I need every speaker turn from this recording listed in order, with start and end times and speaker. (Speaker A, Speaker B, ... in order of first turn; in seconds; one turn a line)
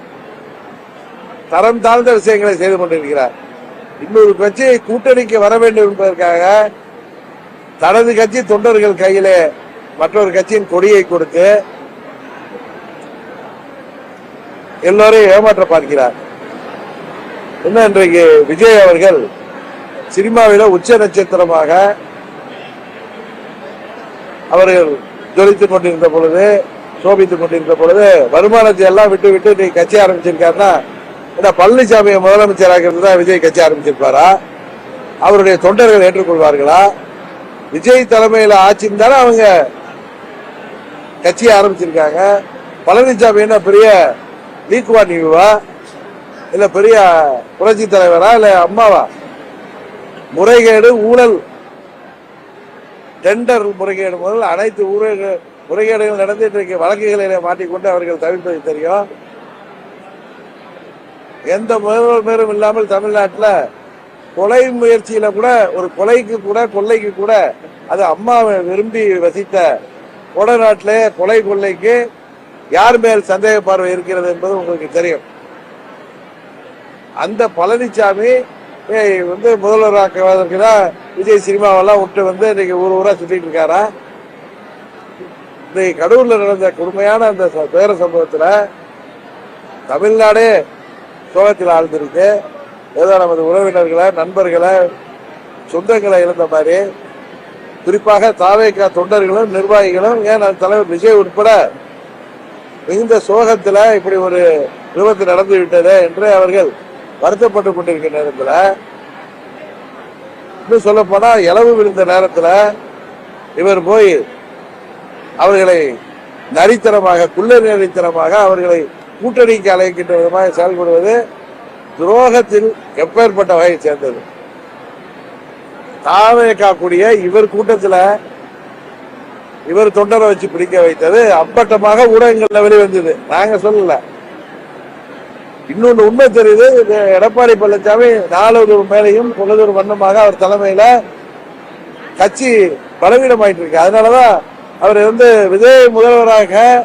Speaker A: 1.5-3.3
Speaker A: 4.0-6.5
Speaker A: 7.8-9.4
Speaker A: 10.0-11.5
Speaker A: 14.8-16.1
Speaker A: 17.6-19.2
Speaker A: 20.1-21.8
Speaker A: 24.5-30.7
Speaker A: 31.4-34.3
Speaker A: 35.2-36.9
Speaker A: 37.7-39.5
Speaker A: 41.2-42.2
Speaker A: 42.9-44.0
Speaker A: 44.7-45.5
Speaker A: 46.5-49.1
Speaker A: 50.3-51.4
Speaker A: 53.2-59.0
Speaker A: 61.5-63.5
Speaker A: 64.3-67.4
Speaker A: 67.9-69.7
Speaker A: 70.3-72.0
Speaker A: 72.8-75.2
Speaker A: 77.2-78.3
Speaker A: 78.9-83.8
Speaker A: 85.7-88.5
Speaker A: 89.9-90.5
Speaker A: 91.3-92.3
Speaker A: 93.0-94.8
Speaker A: 95.7-96.8
Speaker A: 97.8-101.5
Speaker A: 102.9-106.7
Speaker A: 107.2-108.6
Speaker A: 110.6-112.6
Speaker A: 113.6-114.2
Speaker A: 115.4-115.8
Speaker A: 116.6-121.2
Speaker A: 122.0-124.2
Speaker A: 126.0-128.0
Speaker A: 129.7-134.0
Speaker A: 135.7-140.9
Speaker A: 142.2-146.7